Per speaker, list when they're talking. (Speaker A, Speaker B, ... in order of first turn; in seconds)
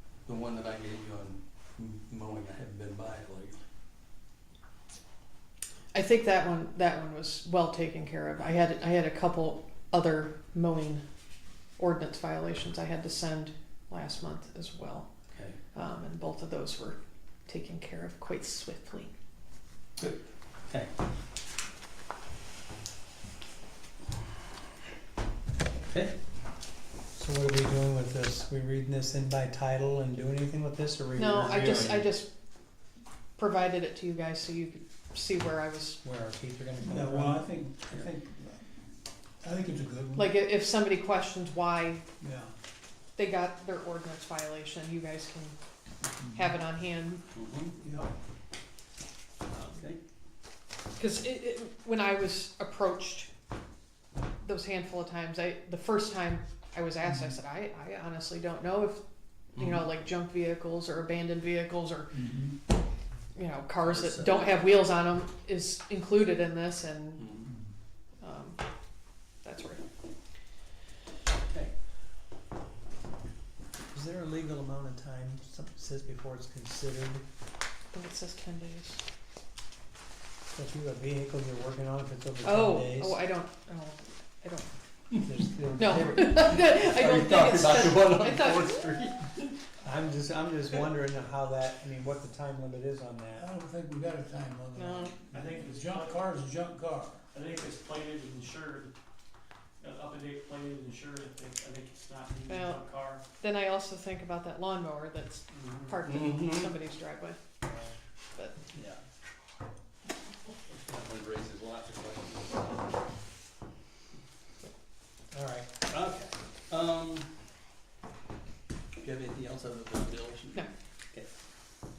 Speaker A: 0.3-3.6, 20.0-20.9, 25.9-26.1, 47.3-47.8, 49.6-50.0, 59.6-59.9, 63.8-64.7, 67.2-67.5, 86.4-89.1, 106.0-106.8, 110.8-112.8, 115.9-117.3, 119.0-121.3
Speaker B: 5.9-11.0, 11.8-15.1, 15.7-19.1, 31.1-32.3, 33.4-36.0, 40.1-42.0, 43.2-45.6, 46.3-47.2, 51.0-53.3, 54.4-59.0, 59.5-62.1, 63.4-67.3, 68.2-68.6, 69.4-69.8, 77.9-79.0, 82.4-84.7, 85.8-89.5, 94.8-95.2, 102.5-102.8, 103.4-107.4
Speaker C: 27.2-32.1, 36.0-37.4, 73.9-77.2, 80.5-83.2, 85.2-86.6, 89.8-93.4, 115.3-115.7
Speaker D: 36.8-38.6, 39.4-40.4, 42.2-42.5, 47.8-48.1, 62.1-62.6, 93.4-97.2
Speaker E: 95.3-96.2, 97.3-98.9, 99.8-103.2, 105.5-105.9